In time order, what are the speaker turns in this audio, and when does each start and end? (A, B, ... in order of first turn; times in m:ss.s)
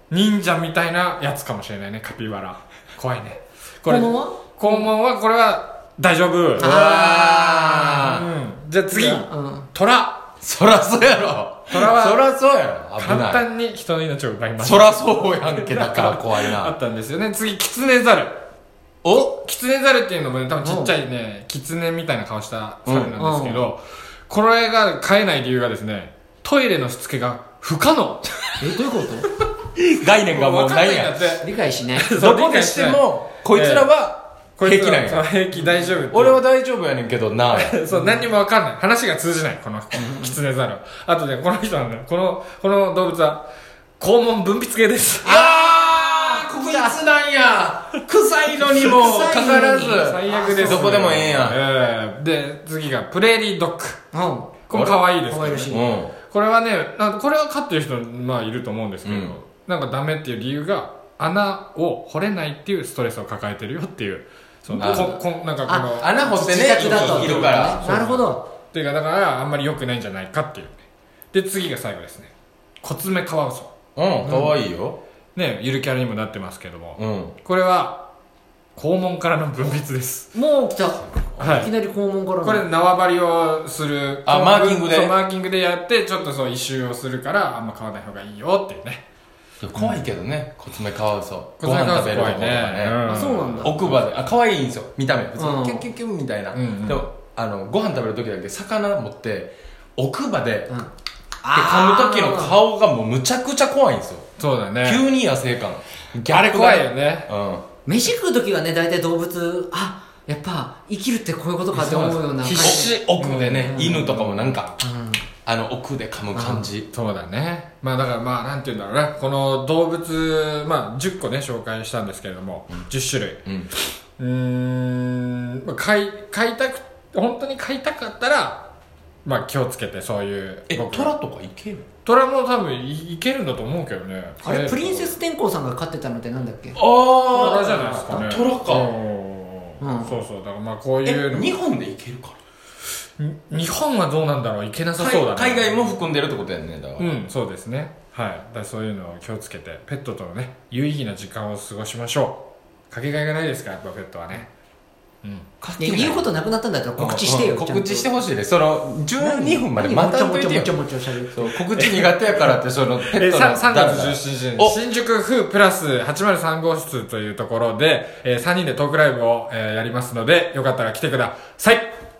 0:00.1-0:06.8 A
0:03.8-0:04.9 B
0:06.6-0:08.0 B
0:06.6-0:08.2 C
0:08.0-0:10.3 A
0:08.9-0:09.7 B
0:10.4-0:13.4 C
0:11.7-0:12.2 A
0:13.0-0:18.4 A
0:14.6-0:16.7 C
0:19.0-0:19.3 C
0:19.1-0:28.6 A
0:20.6-0:21.0 B
0:22.8-0:23.1 C
0:23.2-0:23.7 B
0:28.6-0:29.3 B
0:29.8-0:31.2 C
0:30.3-0:33.9 A
0:31.4-0:32.1 B
0:32.2-0:35.3 C
0:34.6-0:36.4 A
0:36.1-0:37.8 C
0:37.5-0:43.5 A
0:37.9-0:38.2 B
0:40.0-0:40.3 B
0:44.0-0:45.4 A
0:45.2-0:51.6 C
0:45.2-0:47.0 B
0:48.8-0:51.0 B
0:48.9-0:54.0 A
0:54.1-0:54.5 B
0:54.7-1:10.8 A
0:54.7-0:55.0 C
0:55.2-0:55.9 B
0:55.7-0:56.1 C
0:59.0-0:59.3 C
1:04.7-1:08.4 B
1:04.8-1:05.1 C
1:06.0-1:07.8 C
1:11.3-1:13.7 A
1:14.0-1:15.0 C
1:15.3-1:18.1 A
1:17.0-1:17.3 C
1:18.8-1:20.3 A
1:20.3-1:22.6 B
1:21.2-1:21.5 C
1:21.4-1:21.7 A
1:22.4-1:29.0 A
1:24.2-1:25.2 C
1:29.6-1:33.0 C
1:29.8-1:30.0 A
1:31.6-1:33.7 A
1:33.0-1:33.8 B
1:33.6-1:40.7 C
1:35.4-1:35.8 B
1:36.5-1:37.0 A
1:41.4-1:42.6 B
1:41.5-1:44.3 C
1:44.4-1:45.0 A
1:44.8-1:47.6 C
1:46.2-1:47.3 A
1:47.8-1:53.0 B
1:51.7-1:54.7 C
1:51.9-1:54.8 A
1:53.6-1:54.0 B
1:54.8-1:55.2 B
1:55.4-1:56.9 C
1:56.3-1:56.7 B
1:56.9-2:03.4 A
2:04.2-2:08.7 A
2:09.2-2:11.1 A
2:10.7-2:11.8 C
2:12.0-2:15.2 A
2:14.4-2:16.8 B
2:16.7-2:18.9 C
2:17.3-2:18.3 B
2:17.3-2:21.5 A
2:19.8-2:20.2 B
2:21.0-2:22.4 C
2:23.2-2:25.9 A
2:25.0-2:27.1 C
2:27.0-2:34.5 A
2:35.6-2:36.3 C
2:35.8-2:38.1 B
2:37.0-2:40.7 C
2:39.2-2:41.5 B
2:41.3-2:44.8 C
2:41.8-2:42.5 A
2:43.1-2:51.9 A